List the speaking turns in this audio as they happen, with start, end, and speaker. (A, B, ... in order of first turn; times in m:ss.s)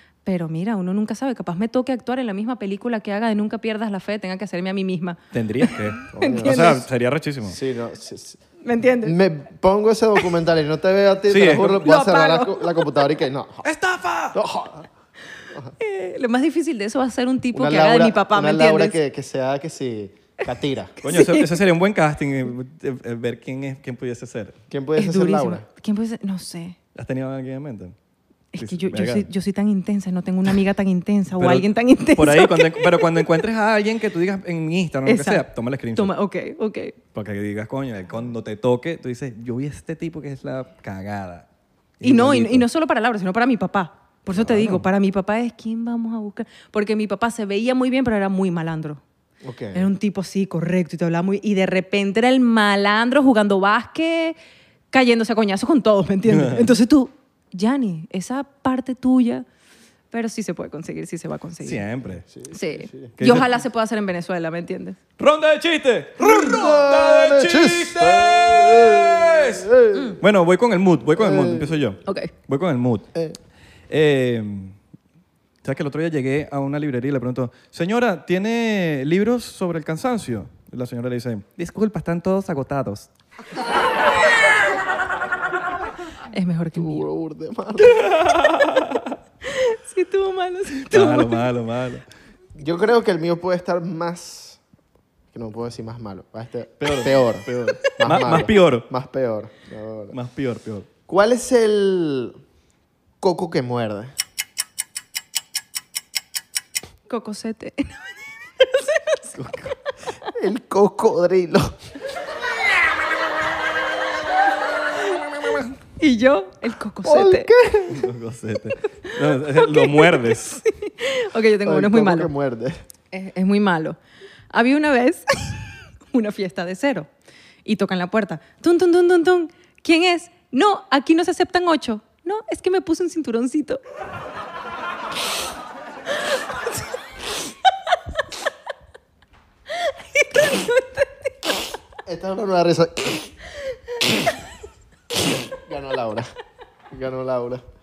0:00.2-0:06.8 A
0:05.3-0:07.6 B
0:06.1-0:06.8 C
0:07.5-0:08.4 C
0:08.6-0:09.2 A
0:09.0-0:13.6 C
0:11.3-0:11.9 B
0:11.6-0:13.0 A
0:13.6-0:14.4 B
0:14.3-0:14.9 C
0:15.8-0:19.0 A
0:17.5-0:20.9 C
0:21.0-0:21.6 A
0:21.0-0:24.6 B
0:24.7-0:25.6 C
0:25.0-0:26.8 A
0:27.0-0:28.0 B
0:28.5-0:33.3 A
0:28.6-0:29.3 B
0:31.4-0:36.1 B
0:35.1-0:37.0 A
0:37.1-0:41.5 B
0:42.0-0:42.7 B
0:42.0-0:49.0 A
0:44.3-0:44.9 B
0:49.4-0:49.9 C
0:49.7-0:54.4 A
0:54.9-0:59.4 A
0:56.3-0:56.7 B
1:00.1-1:01.8 A
1:01.6-1:02.3 B
1:02.3-1:03.4 C
1:02.5-1:05.0 A
1:03.2-1:03.5 B
1:05.2-1:13.1 B
1:06.2-1:10.2 C
1:11.2-1:11.9 C
1:12.0-1:12.3 A
1:13.9-1:14.8 B
1:15.6-1:23.1 B
1:26.3-1:27.1 A
1:26.8-1:28.0 C
1:27.8-1:29.2 B
1:29.5-1:31.5 A
1:30.8-1:32.0 B
1:32.6-1:34.6 C
1:35.3-1:40.2 C
1:36.8-1:38.9 B
1:40.1-1:40.9 B
1:41.1-1:42.4 C
1:43.2-1:44.1 C
1:47.1-1:49.2 A
1:49.3-1:49.8 B
1:50.4-1:51.8 C
1:56.0-1:57.5 A
1:57.0-1:58.1 C
1:57.9-2:00.6 B
1:59.1-2:02.3 A
2:01.6-2:02.8 C
2:03.1-2:04.0 A
2:04.5-2:07.1 A
2:07.6-2:13.8 A
2:19.7-2:21.6 A
2:22.1-2:23.3 C
2:25.2-2:26.3 C
2:26.9-2:27.6 C